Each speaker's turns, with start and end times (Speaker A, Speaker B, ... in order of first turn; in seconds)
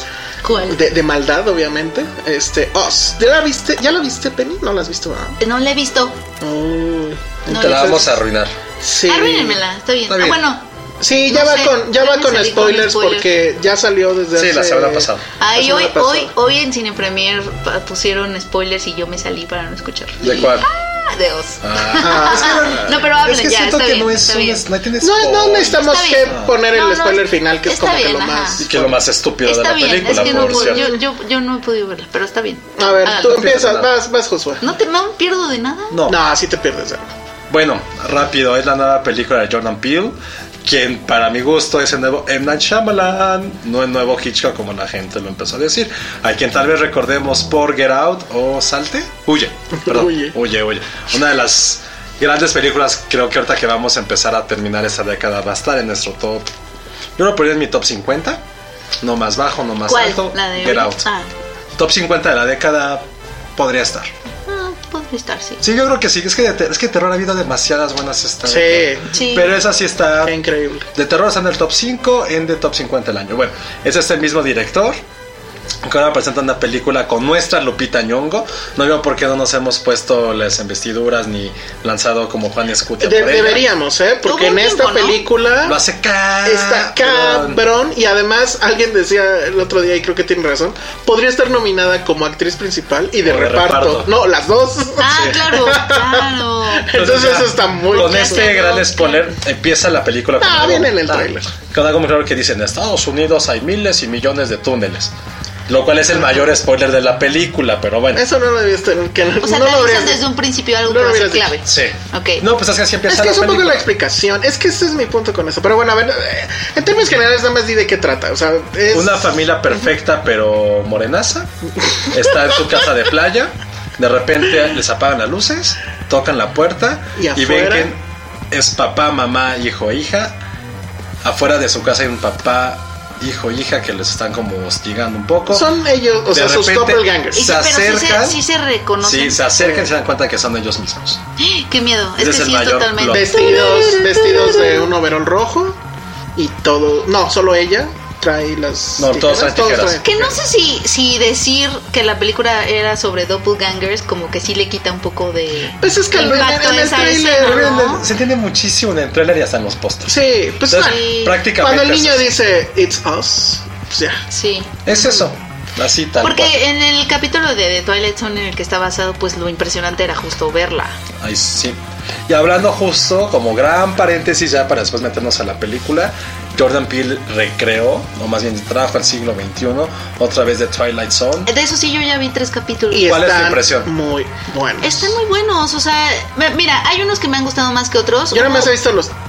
Speaker A: 0.4-0.8, 5.4-6.2, 7.5-8.1, 9.1-10.6, 11.2-13.3, 15.4-24.7, 25.8-28.6, 29.4-33.5, 34.6-36.0, 59.9-61.3, 64.5-65.6, 69.1-69.5, 84.2-85.2, 95.0-97.3, 97.9-99.3, 109.4-112.5, 137.3-139.5, 141.4-144.9, 150.0-158.1, 160.7-161.4, 164.3-164.7, 166.2-171.0, 181.5-183.2, 184.8-188.7
Speaker B: 0.7-5.4, 6.4-8.1, 8.8-9.6, 11.0-16.3, 22.0-22.9, 25.0-29.0, 30.1-31.0, 32.8-34.6, 36.1-37.1, 49.7-50.4, 68.5-69.2, 70.2-70.9, 83.0-85.8, 86.5-96.2, 96.8-98.5, 100.4-101.5, 106.1-106.4, 108.1-110.2, 110.9-111.5, 113.1-119.5, 127.2-127.9, 135.5-137.5, 139.6-139.9, 143.1-145.8, 146.4-150.4, 155.8-157.9, 160.1-164.2, 164.9-165.3, 182.9-185.2, 188.3-189.1
Speaker C: 7.5-8.6, 10.1-10.4, 14.3-15.3, 20.2-20.7, 21.6-26.5, 28.6-30.9, 33.1-33.9, 35.9-36.2, 37.5-56.5, 57.2-58.4, 59.0-61.1, 61.8-63.0, 63.6-64.1, 65.6-70.4, 71.0-75.0, 75.8-83.7, 85.6-87.6, 93.2-94.1, 95.1-95.4, 96.9-105.1, 105.7-108.2, 111.7-113.9, 118.9-121.5, 122.1-130.4, 131.2-135.7, 136.3-138.4, 139.0-141.2, 142.2-143.3, 149.0-150.0, 156.2-156.5, 157.4-162.3, 164.9-166.6, 171.2-181.5, 183.0-183.9